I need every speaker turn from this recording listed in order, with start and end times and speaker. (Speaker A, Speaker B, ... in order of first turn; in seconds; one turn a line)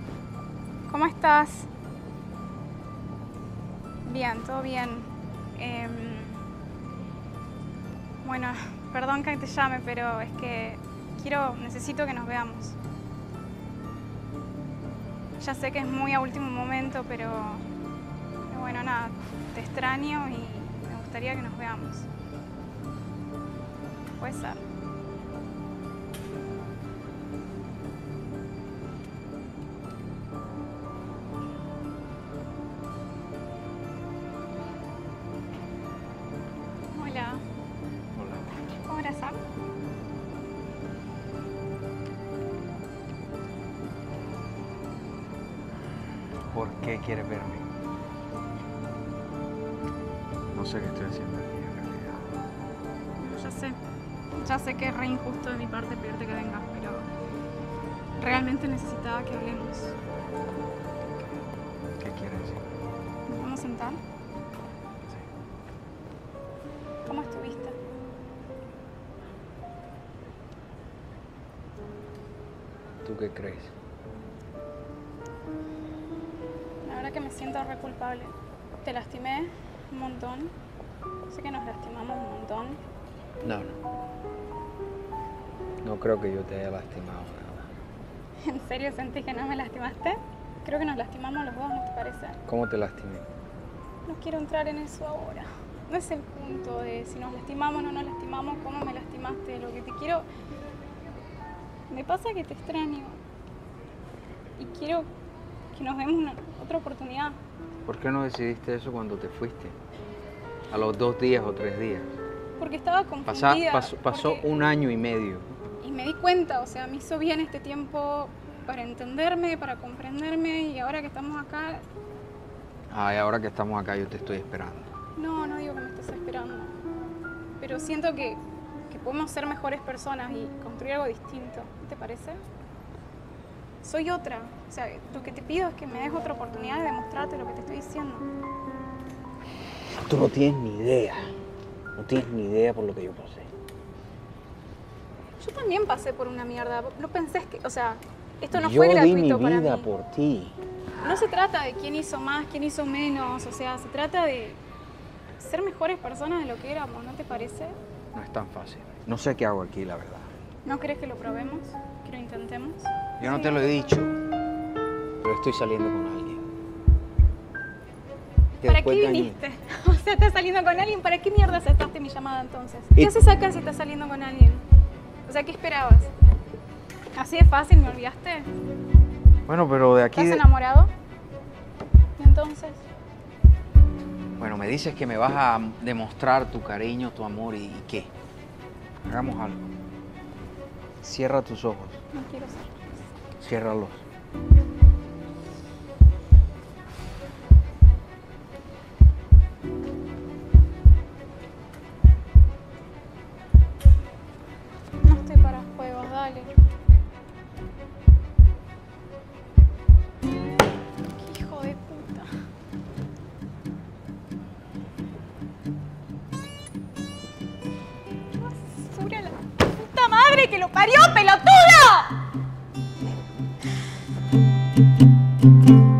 Speaker A: 0.9-1.7
Speaker A: 4.0-6.4
Speaker A: 8.2-12.8
Speaker A: 15.4-17.6
Speaker A: 18.5-22.1
Speaker A: 24.2-24.6
Speaker A: 36.9-37.4
Speaker B: 38.1-38.6
Speaker A: 38.8-39.4
Speaker B: 46.5-47.7
Speaker B: 50.5-52.2
Speaker A: 53.2-53.8
Speaker A: 54.4-57.1
Speaker A: 58.2-59.9
Speaker B: 62.0-62.6
Speaker A: 63.3-64.0
Speaker A: 67.0-67.8
Speaker B: 73.0-73.7
Speaker A: 76.8-80.5
Speaker A: 81.3-82.8
Speaker B: 83.4-83.8
Speaker B: 85.8-87.7
Speaker A: 88.4-92.4
Speaker B: 92.5-93.3
Speaker A: 94.0-100.2
Speaker A: 101.9-103.2
Speaker A: 104.6-105.1
Speaker A: 105.7-107.3
Speaker B: 107.8-109.8
Speaker B: 110.7-112.1
Speaker A: 112.6-114.5
Speaker B: 113.2-115.5
Speaker A: 115.8-121.8
Speaker B: 122.9-124.9
Speaker A: 125.2-126.8
Speaker A: 127.6-132.4
Speaker A: 133.8-138.3
Speaker B: 140.0-141.3
Speaker B: 141.9-143.5
Speaker A: 145.4-149.9
Speaker B: 148.5-150.6
Speaker A: 151.0-154.6
Speaker A: 155.4-157.8
Speaker B: 158.1-160.3
Speaker A: 160.6-163.9
Speaker B: 163.2-164.1
Speaker B: 165.2-166.4
Speaker B: 168.6-169.4
Speaker A: 168.6-174.6
Speaker A: 175.2-176.1
Speaker A: 177.1-178.5
Speaker B: 179.5-180.4
Speaker A: 180.1-180.9
Speaker A: 182.2-182.8
Speaker B: 184.4-188.1
Speaker B: 189.0-189.7
Speaker B: 191.0-192.0
Speaker A: 192.1-192.8
Speaker B: 193.4-194.0
Speaker A: 205.0-206.5
Speaker A: 211.1-212.3
Speaker A: 218.3-222.3